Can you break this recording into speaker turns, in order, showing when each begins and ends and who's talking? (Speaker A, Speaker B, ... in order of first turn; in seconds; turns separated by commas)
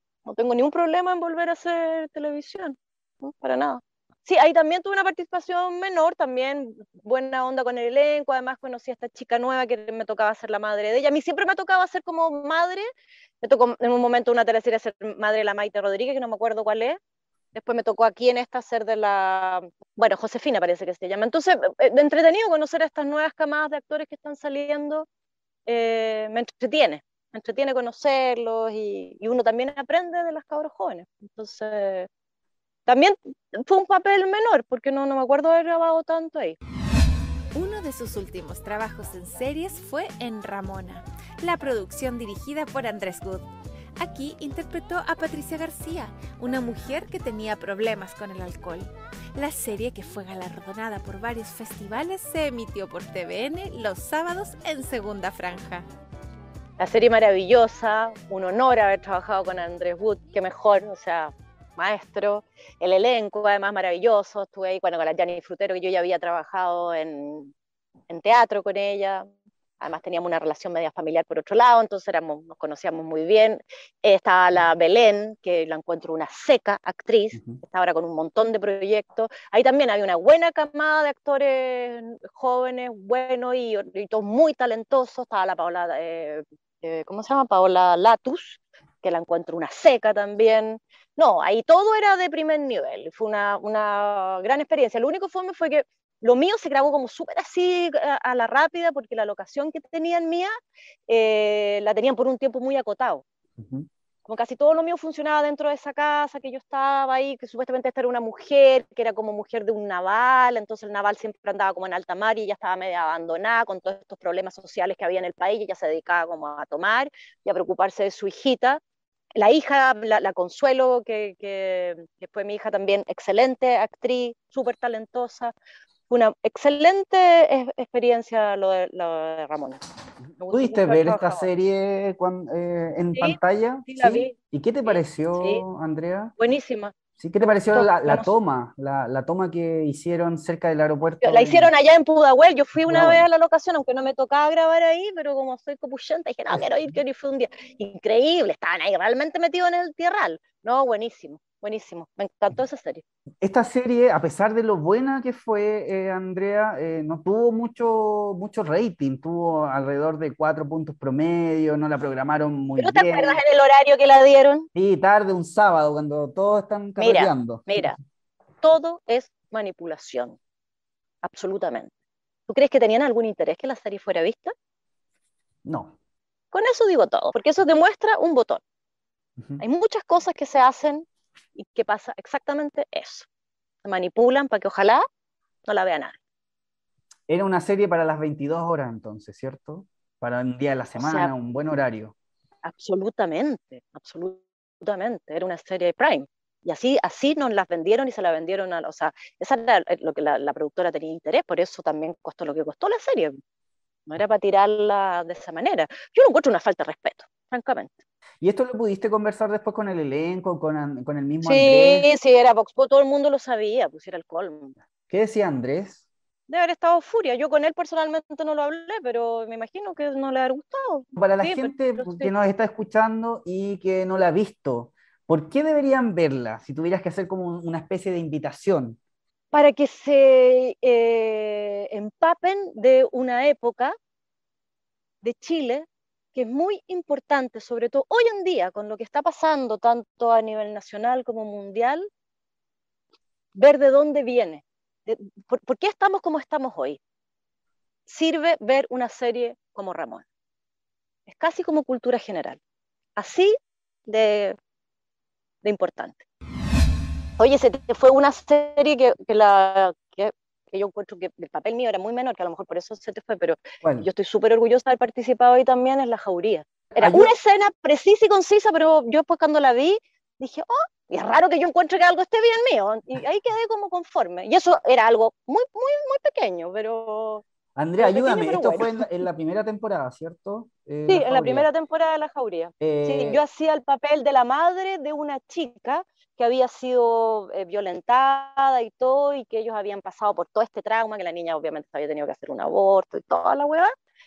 Speaker A: 0.3-12.9, Speaker A: 13.4-17.0, Speaker A: 17.6-25.1, Speaker A: 25.7-32.1, Speaker A: 32.9-36.6, Speaker B: 37.5-43.5, Speaker B: 44.0-55.9, Speaker A: 56.8-67.5, Speaker A: 68.1-69.3, Speaker A: 69.8-100.5, Speaker A: 101.1-103.2, Speaker C: 103.6-103.9, Speaker A: 104.3-118.8, Speaker A: 119.4-125.5, Speaker A: 126.1-129.8, Speaker A: 130.4-131.5, Speaker C: 130.4-136.3, Speaker A: 133.1-135.6, Speaker A: 136.4-138.3, Speaker C: 137.2-141.7, Speaker A: 141.2-153.0, Speaker C: 142.9-143.3, Speaker C: 153.4-163.4, Speaker A: 162.8-164.7, Speaker C: 164.8-167.8, Speaker A: 167.0-168.0, Speaker A: 168.6-170.4, Speaker A: 171.2-171.9, Speaker A: 172.5-174.5, Speaker C: 175.7-175.9, Speaker A: 176.5-178.6, Speaker A: 179.6-183.3, Speaker A: 183.8-185.0, Speaker A: 185.7-186.2, Speaker C: 187.3-192.2, Speaker A: 191.0-191.3, Speaker A: 192.7-203.4, Speaker A: 204.1-208.0, Speaker C: 208.4-212.1, Speaker A: 211.4-214.8, Speaker C: 215.1-216.1, Speaker A: 216.5-222.3, Speaker C: 221.2-229.0, Speaker A: 229.5-234.0, Speaker A: 235.2-242.1, Speaker A: 243.6-247.0, Speaker A: 248.1-250.2, Speaker A: 251.3-252.6, Speaker A: 253.2-253.6, Speaker A: 254.1-254.6, Speaker A: 255.6-256.2, Speaker A: 257.4-277.4, Speaker C: 263.8-264.1, Speaker C: 267.0-267.3, Speaker C: 277.8-281.7, Speaker A: 278.0-279.1, Speaker A: 281.1-293.9, Speaker C: 282.8-283.4